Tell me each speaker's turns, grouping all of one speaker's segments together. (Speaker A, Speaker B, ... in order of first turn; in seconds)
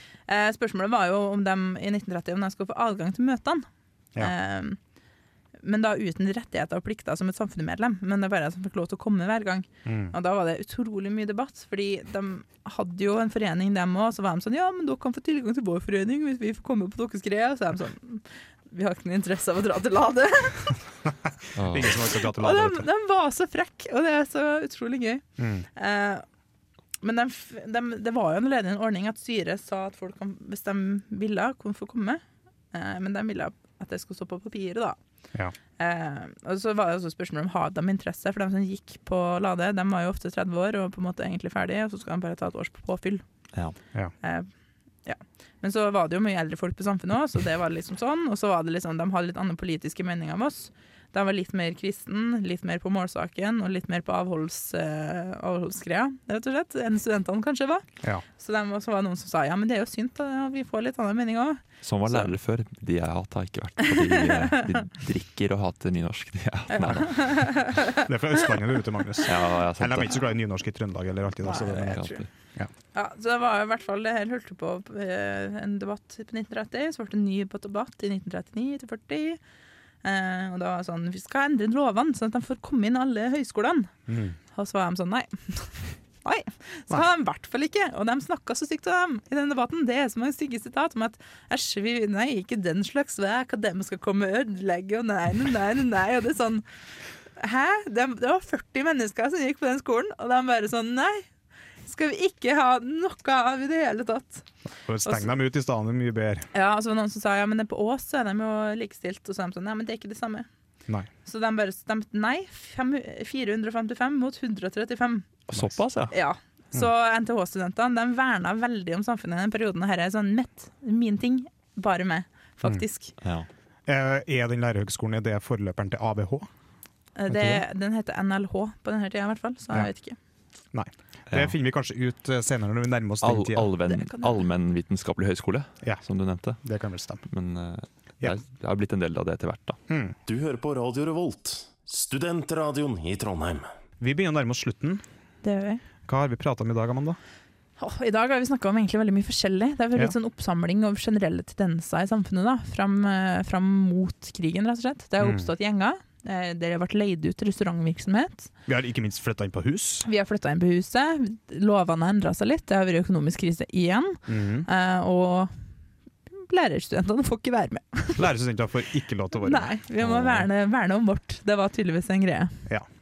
Speaker A: 0.3-3.6, 4.2-4.8, 5.6-20.8, 22.2-25.2, 25.8-26.2, 27.0-35.0, 35.8-43.2, 44.2-44.5, 45.1-57.9, 58.4-62.3, 63.8-64.8, 66.7-68.0, 71.5-72.3, 72.9-79.4, 80.0-83.9, 84.5-96.7, 97.4-101.3, 101.8-104.5, 105.0-105.3, 106.5-110.5, 111.2-115.3, 116.1-123.1, 127.2-130.2, 133.8-134.4, 145.4-145.8, 147.8-158.5, 160.1-165.5, 166.3-168.3, 169.4-172.6
Speaker B: 9.8-10.1, 21.1-22.9, 25.4-25.7, 68.0-72.7, 84.1-84.4, 104.8-106.5, 123.9-126.5, 127.3-127.6, 130.7-133.7, 136.6-137.2, 139.9-140.2, 144.0-145.0, 146.1-147.2, 155.2-155.5, 158.7-160.1, 164.3-164.7, 168.2-170.5
Speaker C: 21.6-21.9, 61.8-67.6, 69.3-70.2, 71.7-72.3, 115.5-116.1, 123.2-123.5, 133.2-136.6, 137.3-139.8
Speaker D: 140.3-143.7